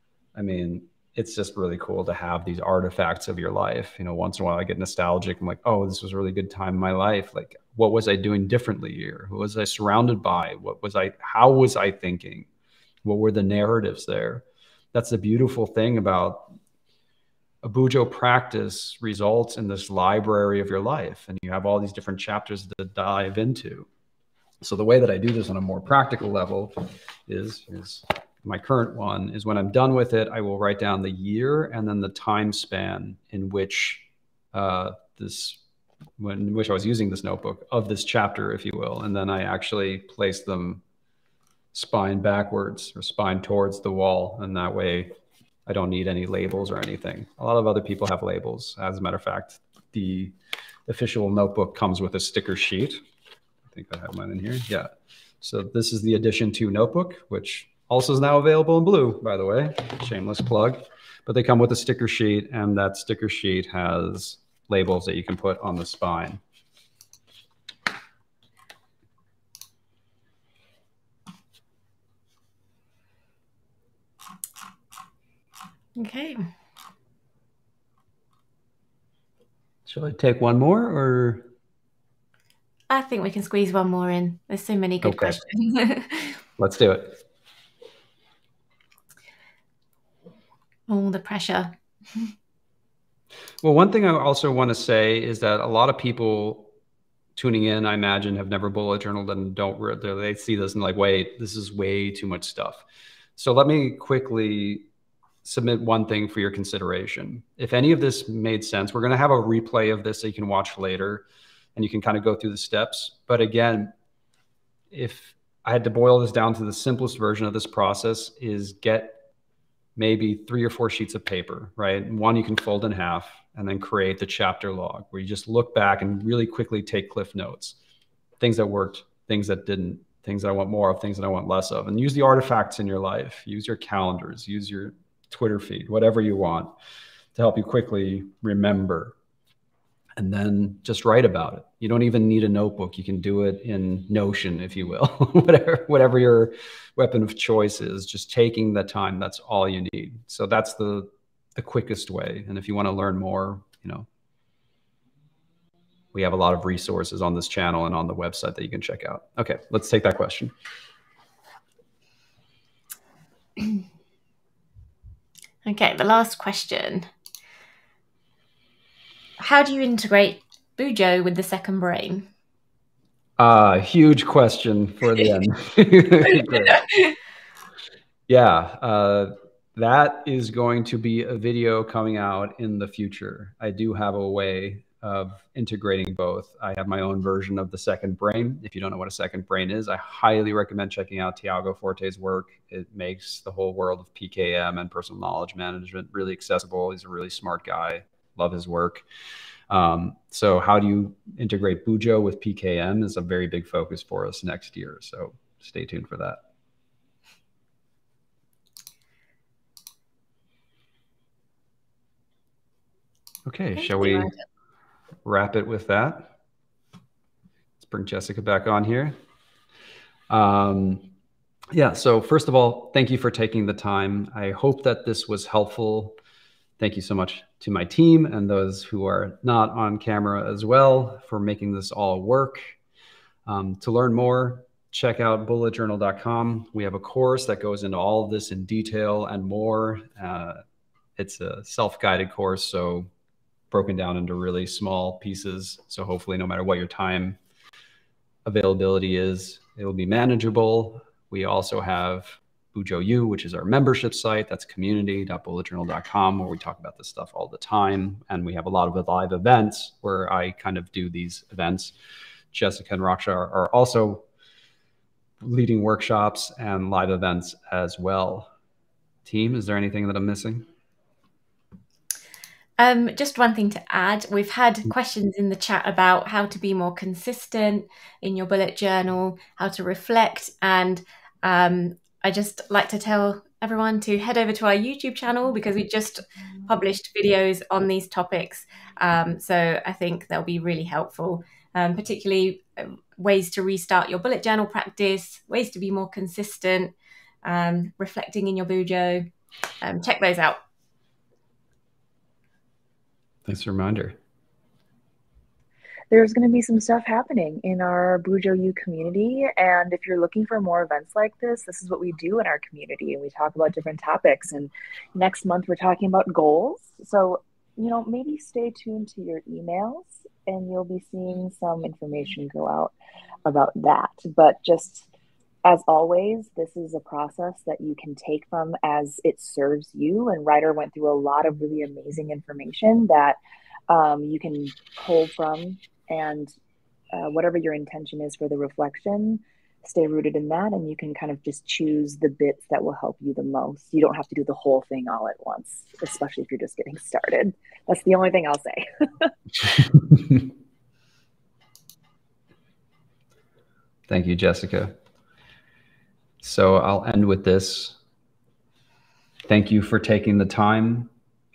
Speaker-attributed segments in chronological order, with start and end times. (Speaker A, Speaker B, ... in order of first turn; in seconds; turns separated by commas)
Speaker A: 0.3-12.5, Speaker A: 13.1-16.5, Speaker A: 17.6-23.9, Speaker A: 24.6-35.6, Speaker A: 36.2-40.8, Speaker A: 41.7-45.1, Speaker A: 45.7-50.3, Speaker A: 50.9-53.0, Speaker A: 53.7-66.4, Speaker B: 76.0-76.5, Speaker A: 79.9-81.5, Speaker B: 82.9-86.4, Speaker A: 85.0-85.4, Speaker A: 86.6-87.2, Speaker B: 90.9-92.3, Speaker A: 93.6-96.7, Speaker A: 97.3-102.8, Speaker A: 103.4-104.9, Speaker A: 105.4-113.9, Speaker A: 114.9-119.2, Speaker A: 120.0-127.8, Speaker A: 128.4-136.7, Speaker A: 137.3-139.1, Speaker A: 140.2-154.1, Speaker A: 156.1-160.5, Speaker B: 165.6-167.1, Speaker B: 169.4-172.3, Speaker A: 173.4-176.9, Speaker B: 176.4-177.1, Speaker A: 178.3-199.1, Speaker A: 199.7-206.4, Speaker A: 213.4-214.3, Speaker B: 213.8-214.4, Speaker A: 215.2-216.3, Speaker A: 217.8-219.2, Speaker A: 220.3-221.1, Speaker A: 221.7-226.2, Speaker A: 226.8-232.8, Speaker A: 233.4-240.6, Speaker A: 241.2-243.1, Speaker A: 243.7-247.4, Speaker A: 248.4-261.9, Speaker A: 262.5-264.2, Speaker A: 265.4-268.5, Speaker A: 269.2-270.7, Speaker B: 272.8-296.9, Speaker B: 297.4-299.3, Speaker B: 299.8-300.6, Speaker A: 303.4-304.2, Speaker C: 306.1-322.9, Speaker C: 323.4-325.1, Speaker C: 325.6-333.4, Speaker C: 333.9-336.6, Speaker C: 337.1-349.3, Speaker A: 354.1-354.9, Speaker A: 356.4-358.0, Speaker A: 359.5-361.1